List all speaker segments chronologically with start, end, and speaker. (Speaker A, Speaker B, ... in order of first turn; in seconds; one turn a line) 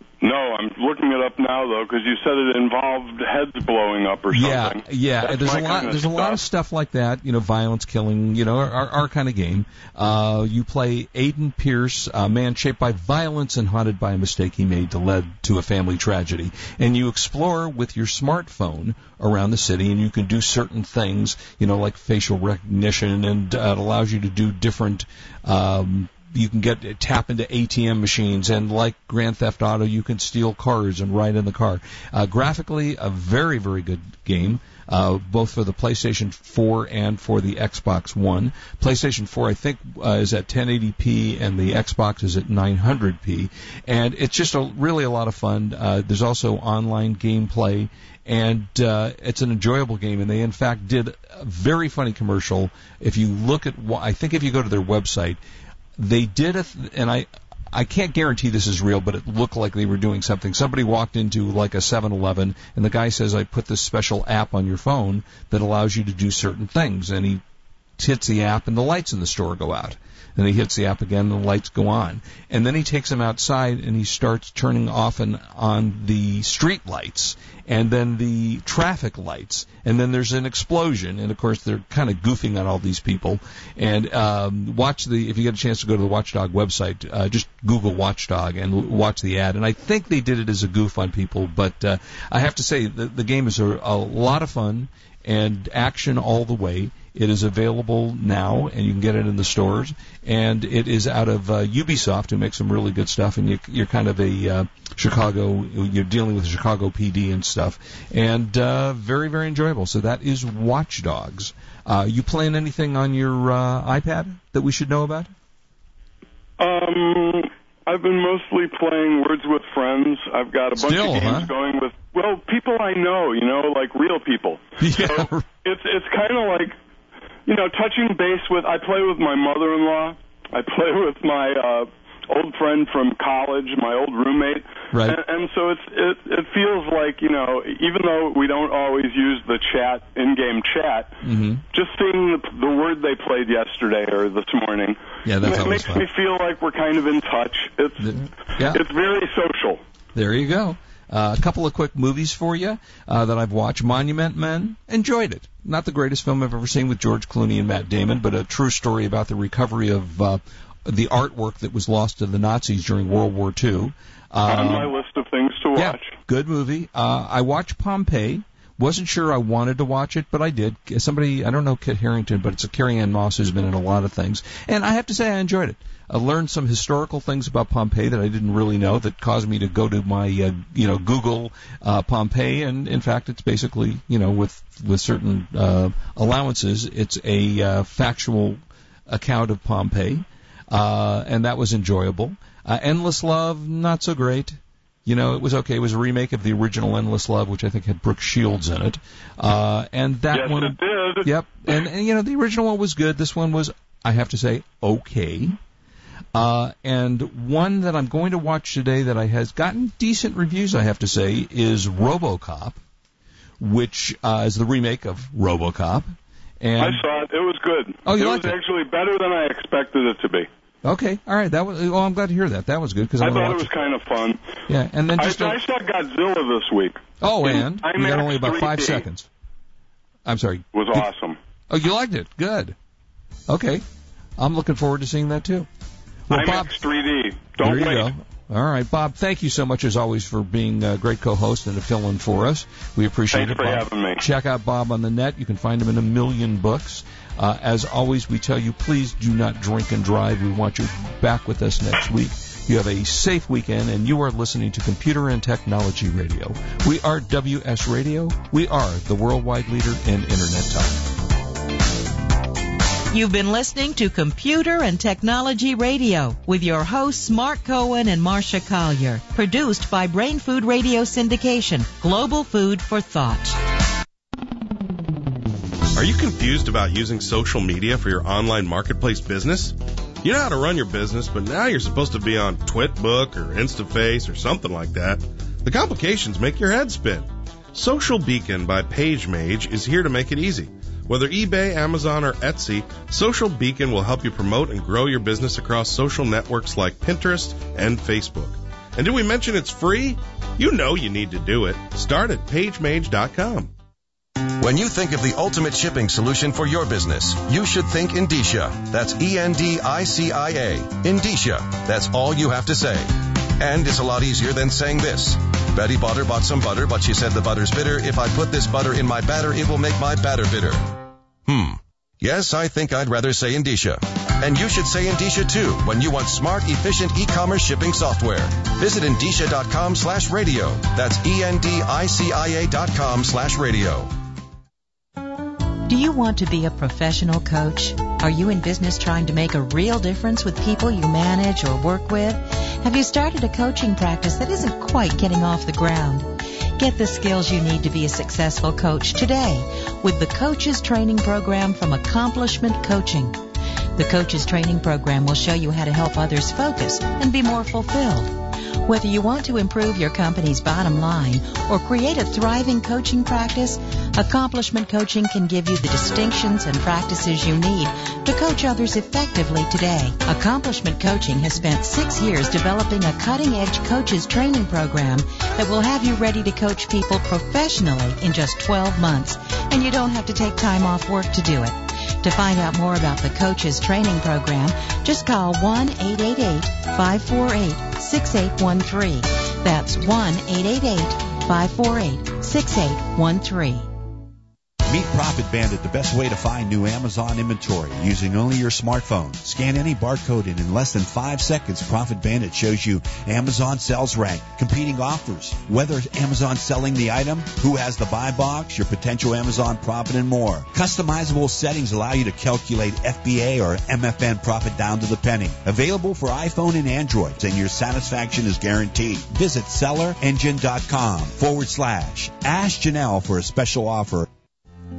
Speaker A: 0.2-6.4
Speaker B: 4.3-55.4
Speaker B: 56.0-67.4
Speaker B: 68.0-115.3
Speaker A: 116.6-126.8
Speaker B: 120.8-121.5
Speaker B: 124.8-125.5
Speaker A: 127.5-141.2
Speaker B: 134.9-135.2
Speaker B: 141.2-141.6
Speaker A: 141.7-149.8
Speaker B: 145.2-146.1
Speaker B: 148.0-148.8
Speaker B: 150.1-164.9
Speaker A: 164.5-166.1
Speaker B: 165.7-205.6
Speaker A: 200.3-201.8
Speaker B: 206.3-212.8
Speaker B: 213.6-217.0
Speaker A: 216.8-220.5
Speaker B: 218.0-218.6
Speaker B: 220.8-223.7
Speaker A: 223.2-224.4
Speaker B: 224.7-225.6
Speaker A: 225.2-229.1
Speaker B: 227.2-229.3
Speaker B: 230.2-231.1
Speaker A: 230.7-231.4
Speaker B: 231.7-232.8
Speaker B: 233.5-233.8
Speaker B: 234.4-235.7
Speaker B: 236.3-236.7
Speaker A: 236.3-238.1
Speaker B: 237.6-261.1
Speaker A: 243.3-244.2
Speaker C: 263.1-273.6
Speaker D: 275.9-303.7
Speaker E: 304.6-334.1
Speaker C: 335.9-353.4
Speaker C: 353.9-393.9
Speaker F: 394.9-424.3